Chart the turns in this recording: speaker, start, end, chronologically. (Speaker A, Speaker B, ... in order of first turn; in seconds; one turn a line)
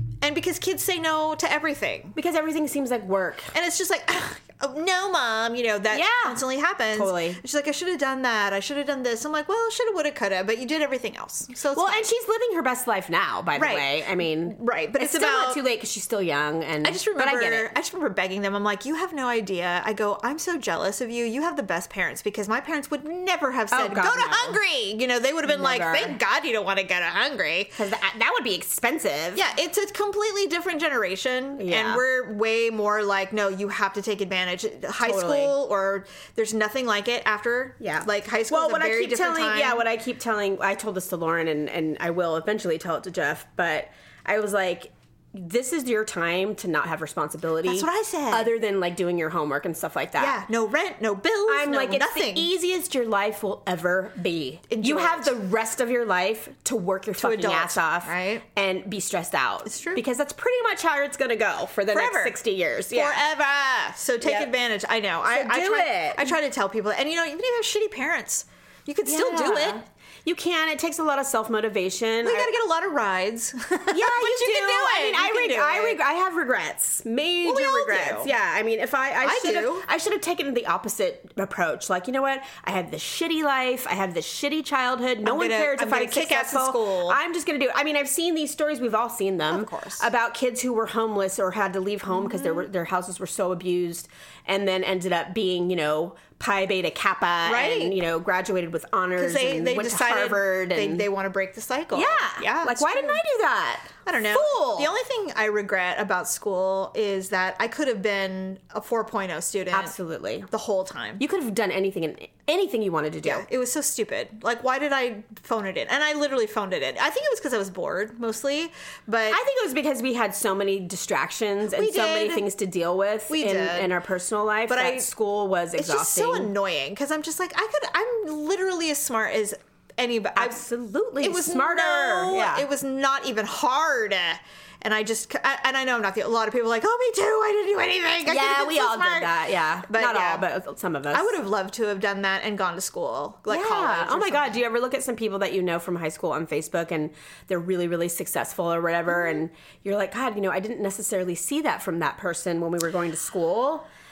Speaker A: 0.2-2.2
Speaker B: 2.1-3.5
Speaker A: 3.5-12.1
Speaker B: 5.9-7.4
Speaker B: 11.7-17.7
Speaker A: 13.6-15.6
Speaker A: 16.8-27.8
Speaker B: 23.7-24.6
Speaker B: 25.4-26.2
Speaker B: 27.8-29.4
Speaker A: 29.3-39.8
Speaker B: 31.6-32.0
Speaker B: 35.0-35.5
Speaker B: 37.8-50.4
Speaker A: 47.6-48.5
Speaker A: 50.2-52.5
Speaker B: 51.5-63.2
Speaker A: 54.7-55.3
Speaker A: 57.2-58.4
Speaker A: 59.6-60.0
Speaker A: 61.9-62.4
Speaker A: 62.9-69.8
Speaker B: 64.2-64.5
Speaker B: 65.3-66.3
Speaker B: 69.0-72.5
Speaker A: 72.2-76.0
Speaker B: 73.9-101.1
Speaker A: 77.4-78.3
Speaker A: 79.2-79.9
Speaker A: 85.2-87.2
Speaker A: 89.5-90.0
Speaker A: 92.1-92.6
Speaker A: 97.4-98.0
Speaker A: 99.2-103.2
Speaker B: 101.9-104.9
Speaker A: 104.0-110.0
Speaker B: 109.7-110.5
Speaker A: 110.5-111.2
Speaker B: 111.2-113.5
Speaker A: 113.2-119.4
Speaker B: 119.3-126.5
Speaker A: 121.7-122.4
Speaker A: 123.3-123.9
Speaker A: 124.7-125.1
Speaker A: 125.7-130.6
Speaker B: 130.3-132.7
Speaker A: 131.2-139.3
Speaker B: 138.2-141.3
Speaker A: 139.9-140.4
Speaker A: 141.1-144.6
Speaker B: 143.5-153.8